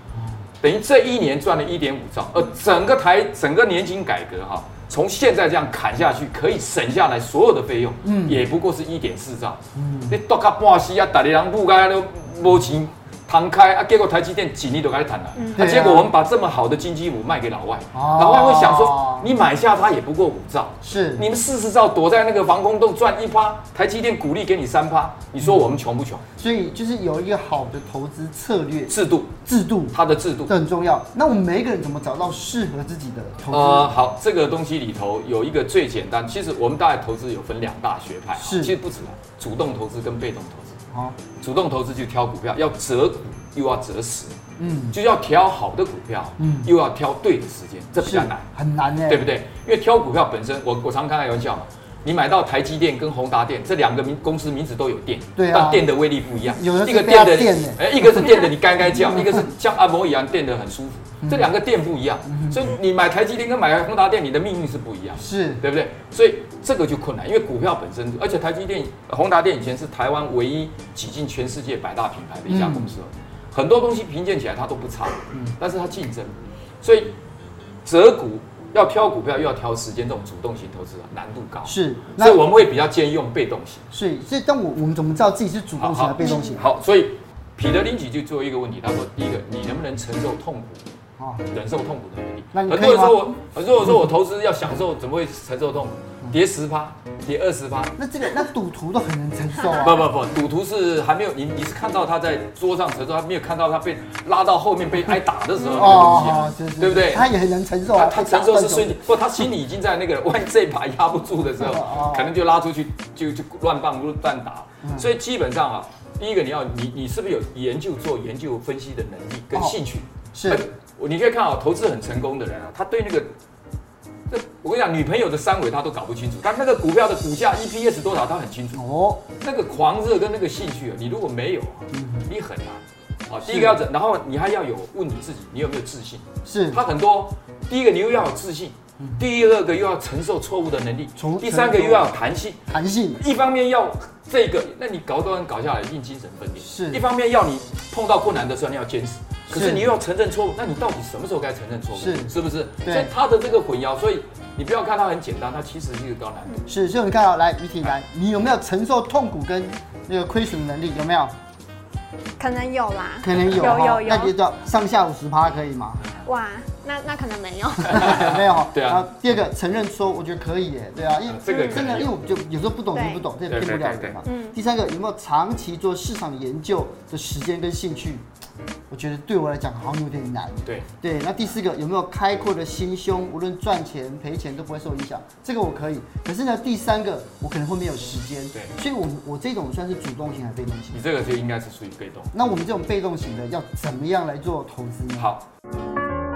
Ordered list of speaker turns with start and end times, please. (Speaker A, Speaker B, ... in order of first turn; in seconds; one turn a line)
Speaker A: 0.6-26.2
Speaker B: 8.0-8.4
Speaker B: 9.8-10.2
Speaker C: 15.4-15.8
Speaker B: 15.6-16.1
Speaker B: 17.9-19.3
Speaker B: 20.8-21.2
Speaker B: 26.4-30.0
Speaker A: 28.9-29.4
Speaker A: 29.9-30.6
Speaker B: 30.5-33.9
Speaker A: 33.5-40.8
Speaker B: 38.4-38.8
Speaker B: 40.9-41.2
Speaker A: 41.4-44.4
Speaker B: 44.6-45.0
Speaker A: 44.9-48.5
Speaker B: 46.4-46.7
Speaker B: 48.0-49.3
Speaker A: 49.1-77.2
Speaker B: 55.4-55.9
Speaker B: 56.5-58.2
Speaker B: 59.0-59.4
Speaker B: 62.3-62.7
Speaker B: 65.2-65.6
Speaker B: 72.5-72.9
Speaker A: 77.8-83.8
Speaker B: 81.7-82.4
Speaker B: 83.9-86.7
Speaker A: 85.8-90.9
Speaker B: 91.2-91.5
Speaker A: 91.5-98.0
Speaker B: 92.5-93.4
Speaker B: 98.0-100.1
Speaker A: 99.7-107.3
Speaker B: 105.7-109.0
Speaker A: 107.9-123.3
Speaker B: 111.6-112.3
Speaker B: 114.8-115.1
Speaker B: 119.5-119.8
Speaker B: 120.3-120.7
Speaker A: 124.3-128.8
Speaker B: 128.7-129.2
Speaker A: 129.4-156.6
Speaker B: 131.9-132.3
Speaker B: 133.4-133.8
Speaker B: 136.4-136.8
Speaker B: 141.2-142.1
Speaker B: 142.7-143.2
Speaker B: 146.6-147.0
Speaker B: 149.5-149.9
Speaker B: 151.9-153.1
Speaker B: 156.7-161.3
Speaker C: 162.4-164.3
Speaker B: 163.2-166.0
Speaker C: 166.2-168.2
Speaker B: 167.8-178.2
Speaker A: 167.9-169.1
Speaker A: 171.3-172.1
Speaker C: 171.5-171.9
Speaker C: 172.9-173.2
Speaker A: 173.5-174.2
Speaker C: 174.2-174.6
Speaker B: 178.9-191.0
Speaker A: 190.9-192.3
Speaker B: 192.3-195.3
Speaker A: 195.2-195.5